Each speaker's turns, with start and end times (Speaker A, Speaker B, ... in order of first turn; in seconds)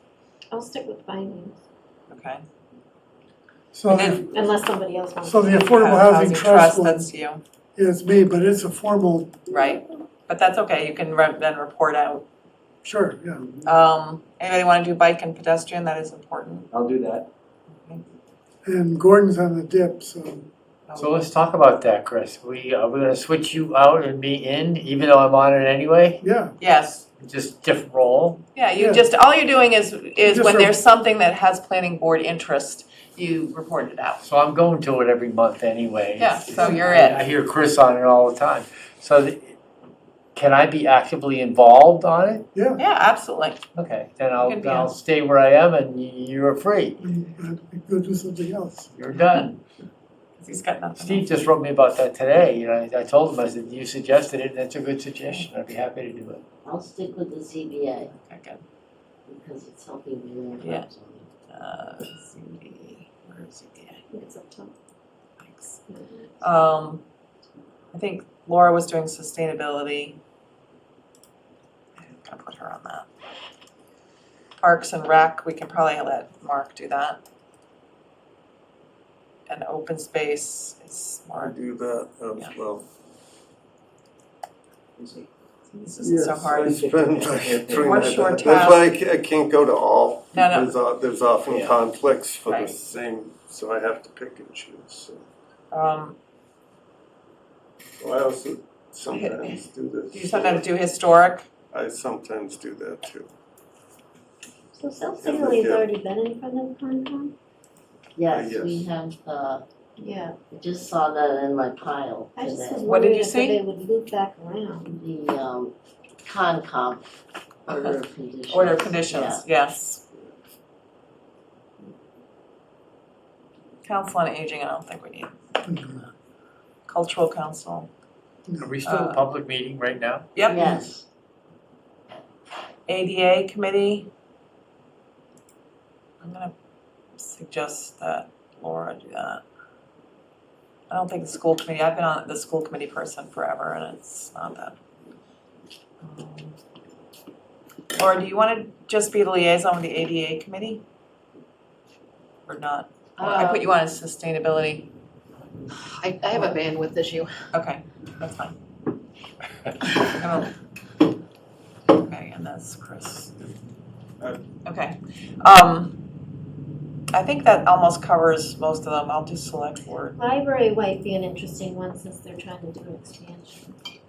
Speaker A: 0.5-1.6, 4.3-5.7, 64.1-64.7, 104.7-107.3, 110.0-110.4, 112.4-115.0, 170.2-173.7
Speaker B: 2.1-2.4, 3.9-4.3, 5.6-7.4, 9.5-12.2, 13.7-16.7, 17.7-18.0, 20.9-21.2, 26.6-27.1, 28.6-34.2, 36.2-37.2, 42.8-43.6, 44.4-44.9, 50.4-51.3, 58.1-58.6, 60.6-60.9, 61.5-64.0, 65.4-65.8, 66.4-67.0, 67.9-70.2, 72.0-73.1, 74.6-77.2, 79.5-81.5, 85.7-88.9, 90.3-90.7, 92.5-92.8, 95.7-96.2, 99.1-101.5, 112.8-113.6, 117.7-118.0, 118.5-120.0, 123.8-125.4, 126.9-127.9, 128.8-129.2, 130.3-130.8, 132.9-134.1, 136.2-136.5, 137.2-139.4, 140.9-144.8, 146.0-146.6, 147.9-150.8, 152.5-154.9, 157.5-158.6, 160.1-160.5, 161.9-163.3, 164.7-166.0, 167.1-170.2
Speaker C: 3.7-4.3, 5.2-7.1, 7.8-9.5, 12.8-13.4, 18.6-20.5, 26.2-26.5, 28.8-29.1, 30.2-30.8, 42.5-42.8, 47.0-49.0, 87.1-88.4, 94.6-95.0, 99.2-99.6, 100.3-100.6, 125.7-126.0
Speaker D: 16.7-17.3, 56.6-58.1, 59.3-61.3, 108.2-109.6, 110.5-112.8, 114.9-115.7, 116.2-119.5, 130.4-131.1
Speaker E: 21.0-26.2, 27.2-28.4, 34.2-39.6, 40.4-42.5, 43.8-47.0, 49.0-49.6, 51.0-56.4, 128.6-130.3
Speaker F: 81.5-82.8, 86.0-95.1, 98.0-100.3, 101.7-103.3, 105.2-105.9, 108.4-108.9
Speaker G: 153.2-153.6, 155.8-157.4